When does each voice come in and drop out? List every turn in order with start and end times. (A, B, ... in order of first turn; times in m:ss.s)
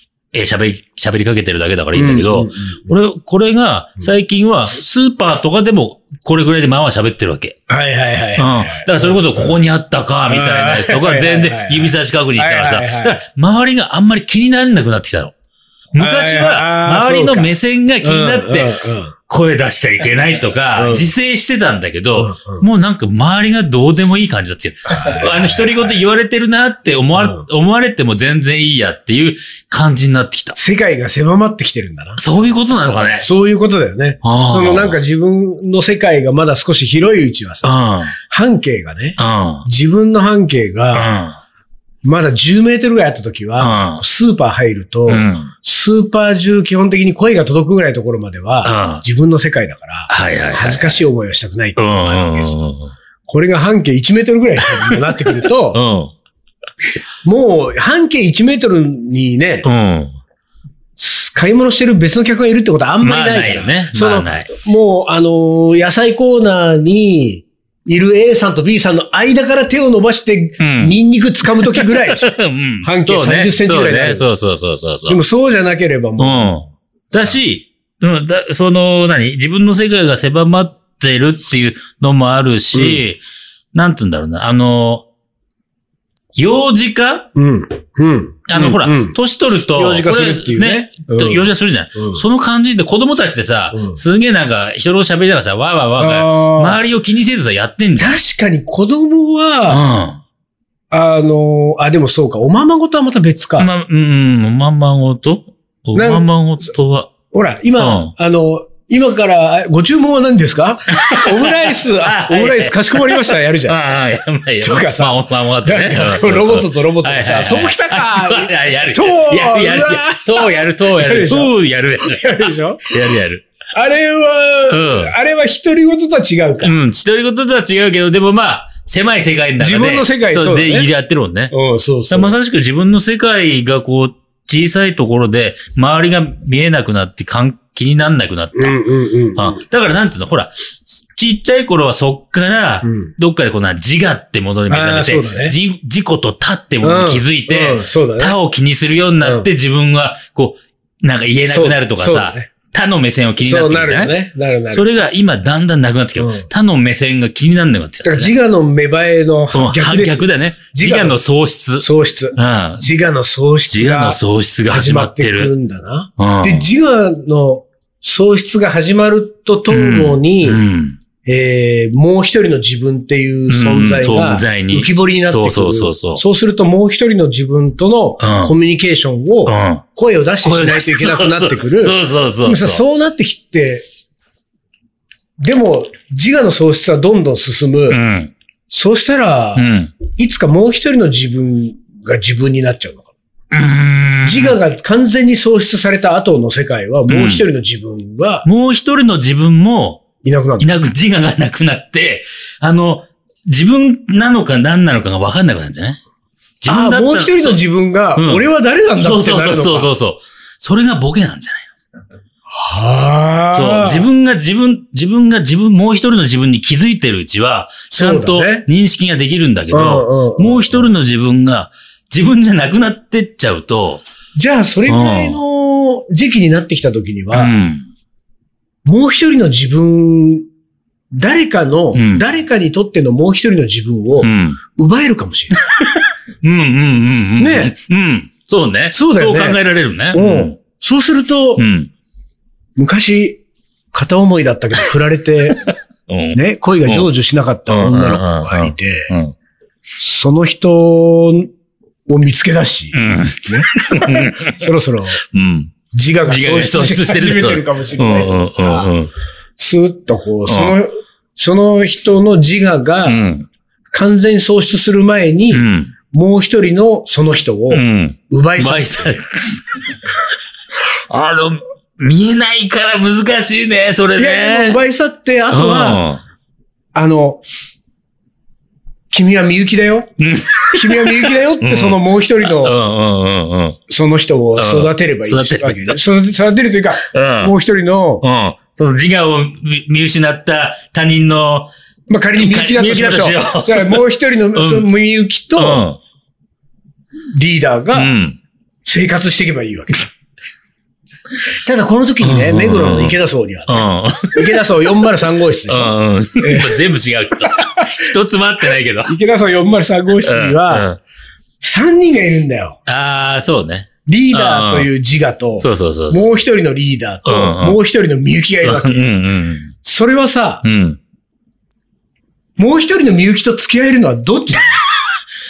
0:00.3-0:07.6 A
0:01.9-0:02.8 B
0:07.7-0:09.5 B
0:08.4-0:15.3 A
0:10.3-0:13.2 B
0:15.9-0:30.6 A
0:16.0-0:19.1 B
0:20.8-0:21.1 B
0:22.2-0:22.6 B
0:24.9-0:26.0 B
0:27.2-0:27.5 B
0:30.6-0:32.2 B
0:32.2-0:33.2 A
0:33.2-0:41.1 B
0:34.2-0:35.0 A
0:37.6-0:38.1 A
0:39.2-0:39.7 A
0:40.9-0:41.4 A
0:42.0-0:52.5 B
0:43.6-0:44.0 A
0:45.1-0:45.5 A
0:48.6-0:49.0 A
0:50.1-0:51.0 A
0:51.8-0:52.9 A
0:53.2-0:55.8 B
0:55.7-0:56.1 A
0:57.2-0:59.7 B
0:59.6-1:00.1 A
1:01.0-1:14.2 B
1:03.0-1:04.5 A
1:10.6-1:11.0 A
1:11.5-1:15.2 A
1:15.1-1:16.6 B
1:16.2-1:23.2 A
1:22.7-1:23.0 B
1:23.7-1:25.0 A
1:26.3-1:27.3 A
1:27.3-1:29.2 B
1:28.5-1:38.2 A
1:29.7-1:32.2 B
1:33.7-1:34.0 B
1:36.0-1:36.8 B
1:38.0-1:39.8 B
1:39.7-1:40.2 A
1:40.9-1:43.7 B
1:43.6-1:47.1 A
1:45.9-1:46.2 B
1:47.3-1:53.8 B
1:47.8-1:48.1 A
1:50.9-2:03.4 A
1:54.6-2:02.9 B
2:03.7-2:06.7 B
2:04.7-2:05.1 A
2:06.6-2:11.5 A
2:09.6-2:10.9 B
2:11.5-2:12.3 B
2:12.1-2:18.8 A
2:18.5-2:19.6 B
2:19.4-2:34.1 A
2:22.8-2:23.1 B
2:24.7-2:25.6 B
2:26.8-2:28.4 B
2:31.4-2:32.5 B
2:33.4-2:34.8 B
2:34.7-2:38.3 A
2:36.2-2:36.5 B
2:38.0-2:41.2 B
2:39.5-2:42.9 A
2:41.8-2:50.6 B
2:43.7-2:45.5 A
2:46.2-2:46.7 A
2:49.7-2:51.0 A
2:51.2-3:03.8 B
2:53.5-2:56.2 A
2:58.2-2:58.5 A
2:59.4-2:59.8 A
3:00.4-3:02.8 A
3:05.4-3:08.0 B
3:07.9-3:08.3 A
3:08.7-3:13.1 B
3:09.6-3:09.9 A
3:13.5-3:14.6 A
3:14.2-3:18.4 B
3:17.1-3:17.4 A
3:18.4-3:20.1 A
3:20.2-3:20.7 B
3:20.6-3:26.0 A
3:26.6-3:27.6 A
3:26.7-3:29.9 B
3:28.2-3:28.4 A
3:29.0-3:31.7 A
3:32.5-3:34.1 B
3:33.5-3:44.0 A
3:37.9-3:38.7 B
3:39.7-3:40.9 B
3:44.4-3:47.5 B
3:44.9-3:45.4 A
3:47.3-3:47.8 A
3:48.8-3:50.4 B
3:51.1-3:55.6 B
3:51.9-3:52.2 A
3:54.2-3:54.6 A
3:55.8-4:00.6 A
3:57.4-3:57.7 B
3:58.9-3:59.6 B
4:00.1-4:01.7 B
4:01.6-4:01.9 A
4:02.8-4:03.4 B
4:03.9-4:05.7 B
4:06.1-4:07.1 A
4:06.3-4:09.1 B
4:07.7-4:09.3 A
4:10.0-4:11.5 B
4:12.1-4:15.2 B
4:12.9-4:14.7 A
4:15.3-4:15.7 A
4:15.9-4:18.9 B
4:16.2-4:19.1 A
4:19.6-4:23.2 B
4:20.5-4:20.8 A
4:23.0-4:23.5 A
4:23.9-4:29.1 B
4:25.5-4:25.9 A
4:27.7-4:30.0 A
4:31.1-4:34.8 A
4:34.2-4:36.0 B
4:35.5-4:36.2 A
4:36.9-4:37.4 B
4:39.1-4:40.1 B
4:40.2-4:43.8 A
4:40.7-4:42.8 B
4:43.9-4:48.2 B
4:44.6-4:46.0 A
4:47.1-4:47.5 A
4:48.2-4:51.7 A
4:52.1-4:55.8 B
4:52.4-4:54.0 A
4:54.6-4:54.9 A
4:55.6-4:56.0 A
4:57.3-4:58.1 B
4:57.9-4:58.4 A
4:58.8-5:00.1 B
5:01.6-5:06.8 B
5:02.2-5:04.6 A
5:05.7-5:09.1 A
5:07.6-5:08.0 B
5:09.0-5:10.9 B
5:10.2-5:11.0 A
5:11.6-5:12.8 B
5:12.8-5:14.9 A
5:14.0-5:19.0 B
5:15.6-5:16.2 A
5:17.2-5:17.8 A
5:18.6-5:19.7 A
5:19.8-5:20.6 B
5:20.6-5:21.0 A
5:22.6-5:24.8 B